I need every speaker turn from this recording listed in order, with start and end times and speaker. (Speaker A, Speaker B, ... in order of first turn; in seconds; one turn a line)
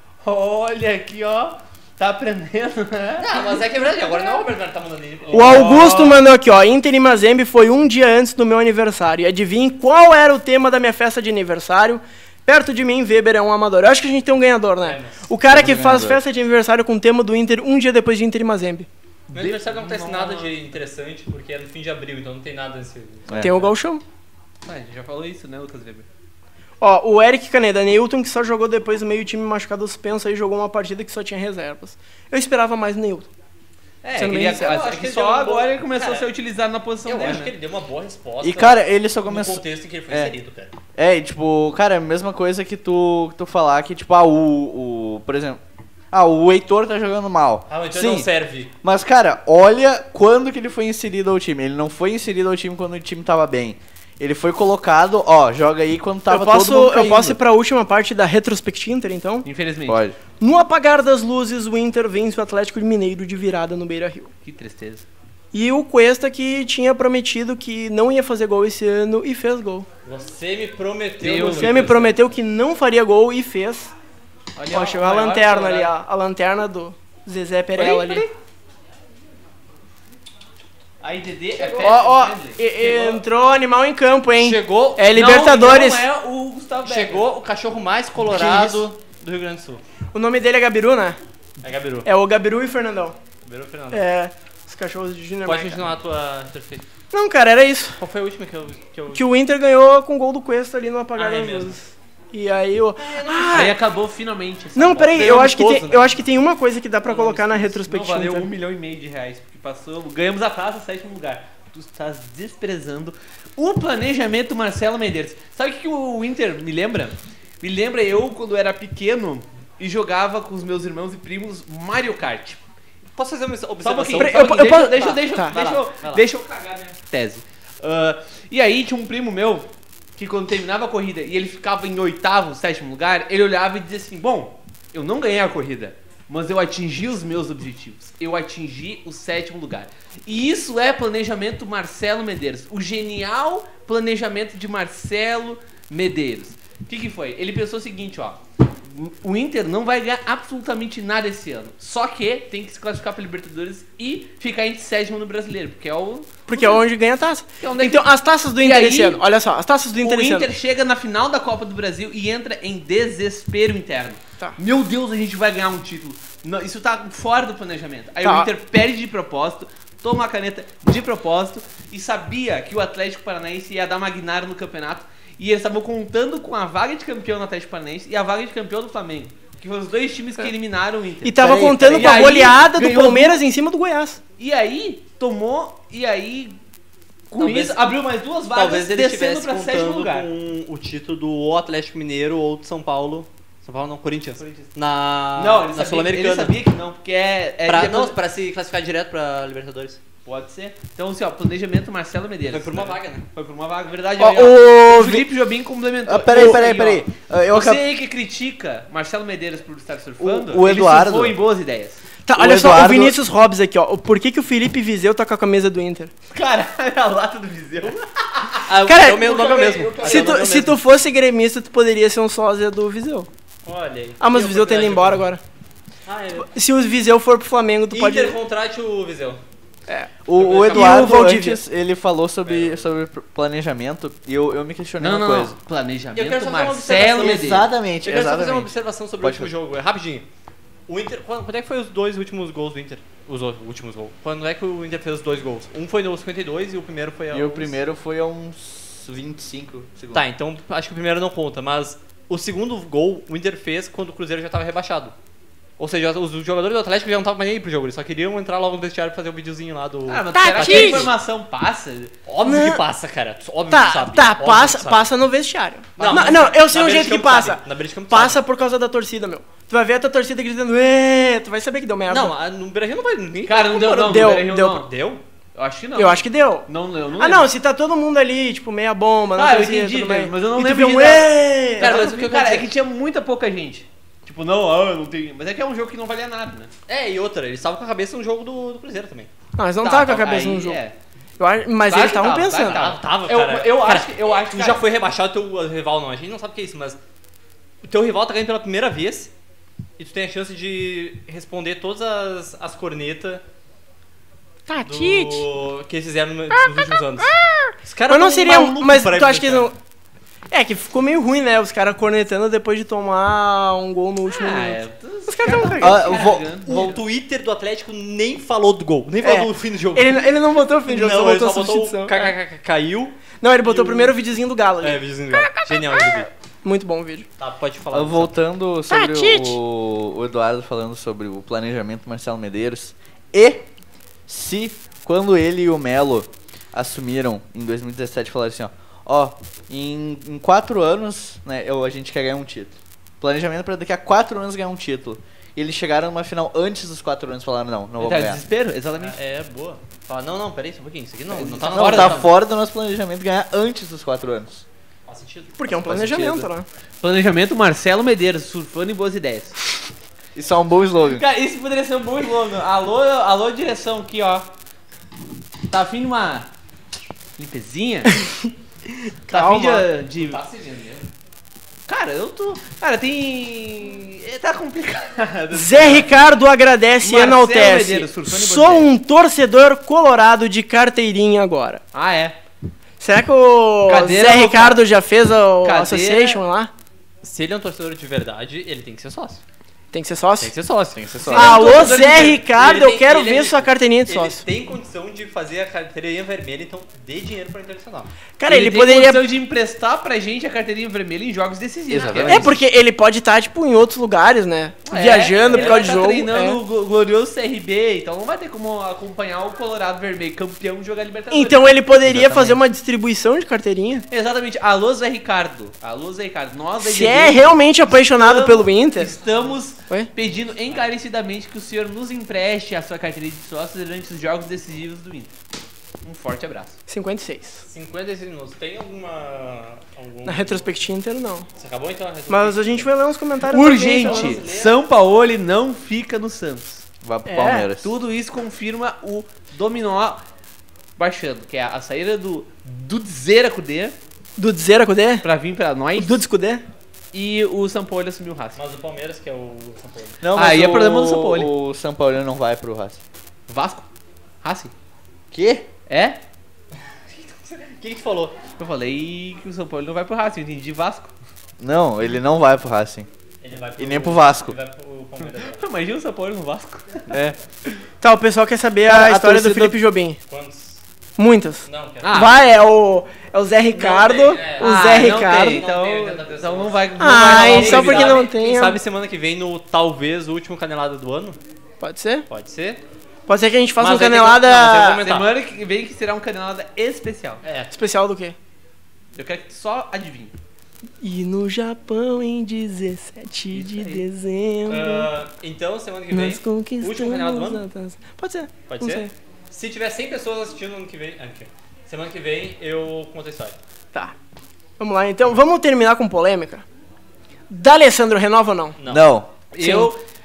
Speaker A: 0.2-3.5
Speaker B: 3.2-6.1
Speaker A: 5.3-6.2
Speaker C: 5.3-18.9
Speaker B: 14.8-15.3
Speaker D: 15.5-16.2
Speaker A: 19.3-20.6
Speaker B: 19.3-23.7
Speaker D: 23.3-23.6
Speaker C: 23.4-24.0
Speaker A: 24.6-26.1
Speaker C: 26.8-33.3
Speaker A: 34.0-37.5
Speaker C: 34.2-34.9
Speaker B: 34.5-36.3
Speaker B: 37.0-40.7
Speaker D: 38.4-40.3
Speaker D: 41.0-45.6
Speaker D: 46.1-48.3
Speaker B: 47.7-48.7
Speaker D: 48.8-57.4
Speaker C: 56.3-59.5
Speaker A: 59.4-60.0
Speaker D: 59.9-60.2
Speaker C: 60.4-64.3
Speaker A: 64.4-65.1
Speaker C: 65.5-69.9
Speaker B: 70.0-72.2
Speaker A: 71.2-72.0
Speaker C: 71.4-73.9
Speaker A: 74.6-75.9
Speaker C: 74.7-78.3
Speaker B: 77.8-78.2
Speaker A: 81.0-82.6
Speaker B: 81.6-82.0
Speaker C: 81.8-86.0
Speaker B: 82.7-83.2
Speaker B: 84.4-85.1
Speaker A: 85.1-87.3
Speaker B: 86.8-89.8
Speaker A: 88.2-88.9
Speaker C: 90.1-91.2
Speaker B: 91.6-92.1
Speaker C: 92.0-93.2
Speaker B: 93.5-94.0
Speaker C: 93.9-95.8
Speaker B: 95.5-96.9
Speaker C: 97.1-98.0
Speaker B: 98.0-99.2
Speaker C: 99.1-103.8
Speaker B: 101.2-101.8
Speaker B: 103.0-103.7
Speaker A: 103.5-105.5
Speaker C: 104.8-108.5
Speaker B: 105.1-106.2
Speaker A: 107.1-122.6
Speaker B: 107.1-107.6
Speaker B: 123.2-126.2
Speaker A: 123.8-156.8
Speaker C: 124.2-125.5
Speaker C: 156.5-160.5
Speaker A: 157.6-158.1
Speaker A: 158.6-159.2
Speaker A: 160.0-183.4
Speaker C: 168.2-168.5
Speaker C: 181.2-184.2
Speaker A: 184.4-186.6
Speaker A: 187.3-190.3
Speaker B: 187.4-188.0
Speaker B: 188.5-196.6
Speaker A: 194.4-194.7
Speaker A: 195.4-198.2
Speaker B: 197.7-200.0
Speaker A: 200.3-212.0
Speaker B: 202.5-203.2
Speaker C: 204.2-205.3
Speaker D: 206.1-207.8
Speaker D: 210.2-211.4
Speaker C: 212.2-216.1
Speaker D: 212.3-213.2
Speaker A: 216.3-220.4
Speaker B: 218.7-220.8
Speaker C: 218.8-219.4
Speaker C: 220.0-223.3
Speaker B: 223.7-225.3
Speaker C: 224.2-225.4
Speaker B: 226.1-226.5
Speaker C: 226.4-228.4
Speaker B: 227.9-229.4
Speaker D: 230.3-235.6
Speaker B: 230.4-231.2
Speaker C: 230.7-231.6
Speaker B: 232.4-232.9
Speaker A: 235.0-237.7
Speaker B: 236.2-240.2
Speaker D: 237.1-239.5
Speaker B: 240.9-247.8
Speaker D: 247.3-250.2
Speaker B: 250.1-255.1
Speaker B: 255.8-261.1
Speaker A: 260.1-262.2
Speaker C: 260.3-261.1
Speaker B: 262.3-265.1
Speaker C: 262.4-262.8
Speaker C: 263.7-272.3
Speaker B: 266.0-268.4
Speaker A: 266.0-266.4
Speaker B: 272.1-275.2
Speaker A: 273.5-274.9
Speaker C: 274.0-274.8
Speaker A: 275.6-277.5
Speaker C: 276.0-282.5
Speaker A: 279.4-286.7
Speaker B: 281.8-282.7
Speaker B: 286.9-289.3
Speaker C: 289.6-290.8
Speaker A: 289.8-290.9
Speaker C: 291.4-292.8
Speaker A: 291.9-294.8
Speaker B: 292.7-297.0
Speaker B: 297.8-299.3
Speaker B: 300.0-303.4
Speaker C: 304.7-305.4
Speaker B: 304.8-309.7
Speaker C: 306.6-309.8
Speaker C: 310.5-316.1
Speaker A: 314.3-317.0
Speaker D: 315.8-316.5
Speaker B: 316.1-320.3
Speaker C: 319.2-322.4
Speaker B: 320.9-324.2
Speaker C: 323.4-326.0
Speaker B: 324.8-326.3
Speaker C: 326.6-327.3
Speaker B: 327.4-328.4
Speaker D: 327.9-333.7
Speaker C: 328.9-329.6
Speaker D: 334.3-348.4
Speaker A: 348.0-349.2
Speaker B: 349.0-352.3
Speaker A: 351.3-352.3
Speaker D: 351.7-354.7
Speaker B: 355.1-356.5
Speaker C: 355.6-356.7
Speaker A: 357.0-359.6
Speaker D: 360.4-361.2
Speaker A: 361.1-364.5
Speaker A: 365.7-366.5
Speaker A: 367.4-368.2
Speaker C: 369.3-369.9
Speaker A: 369.3-370.4
Speaker B: 370.2-371.1
Speaker A: 371.9-376.1
Speaker C: 375.5-381.8
Speaker A: 377.0-378.9
Speaker A: 381.9-382.4
Speaker C: 383.0-386.7
Speaker A: 383.9-384.9
Speaker A: 385.6-386.4
Speaker B: 387.2-389.4
Speaker C: 389.9-390.5
Speaker B: 390.4-398.1
Speaker A: 391.2-392.4
Speaker C: 391.3-394.4
Speaker C: 398.4-399.2
Speaker A: 398.5-402.6
Speaker D: 401.9-402.6
Speaker C: 402.3-406.6
Speaker A: 404.9-411.7
Speaker B: 405.4-406.0
Speaker C: 411.3-414.1
Speaker D: 412.0-412.6
Speaker A: 414.1-425.3
Speaker C: 416.8-419.1
Speaker A: 426.0-426.8
Speaker C: 426.9-427.6
Speaker B: 427.7-430.7
Speaker C: 430.2-431.5
Speaker B: 431.6-432.9
Speaker C: 432.3-434.4
Speaker A: 433.5-436.8
Speaker B: 433.9-434.8
Speaker D: 437.0-437.9
Speaker C: 437.3-437.7
Speaker A: 437.8-440.2
Speaker A: 441.0-443.9
Speaker C: 444.4-445.2
Speaker A: 445.2-446.2
Speaker C: 446.0-446.6
Speaker A: 447.1-448.6
Speaker B: 448.6-450.2
Speaker D: 450.2-453.0
Speaker A: 450.4-451.5
Speaker A: 453.5-453.9
Speaker A: 454.4-454.7
Speaker D: 455.3-455.7
Speaker A: 455.9-456.2
Speaker B: 457.1-458.4
Speaker A: 458.6-461.1
Speaker D: 461.6-463.1
Speaker B: 463.4-465.6
Speaker D: 463.8-464.6
Speaker A: 465.2-467.8
Speaker C: 468.0-470.2
Speaker D: 468.9-469.8
Speaker B: 470.3-470.8
Speaker C: 471.2-475.6
Speaker B: 471.6-472.2
Speaker A: 472.0-472.4
Speaker B: 473.7-481.4
Speaker A: 474.6-478.3
Speaker C: 477.0-478.8
Speaker C: 481.8-482.3
Speaker B: 482.3-482.8
Speaker C: 483.3-485.1
Speaker B: 483.8-485.3
Speaker A: 485.0-487.4
Speaker B: 487.4-487.7
Speaker C: 487.7-488.4
Speaker A: 489.2-490.3
Speaker C: 491.0-495.1
Speaker A: 493.5-494.0
Speaker B: 494.7-497.6
Speaker C: 496.1-499.1
Speaker B: 498.7-503.6
Speaker C: 504.8-506.6
Speaker C: 507.5-508.8
Speaker B: 508.8-509.1
Speaker D: 508.9-509.3
Speaker A: 509.5-510.0
Speaker C: 509.6-509.9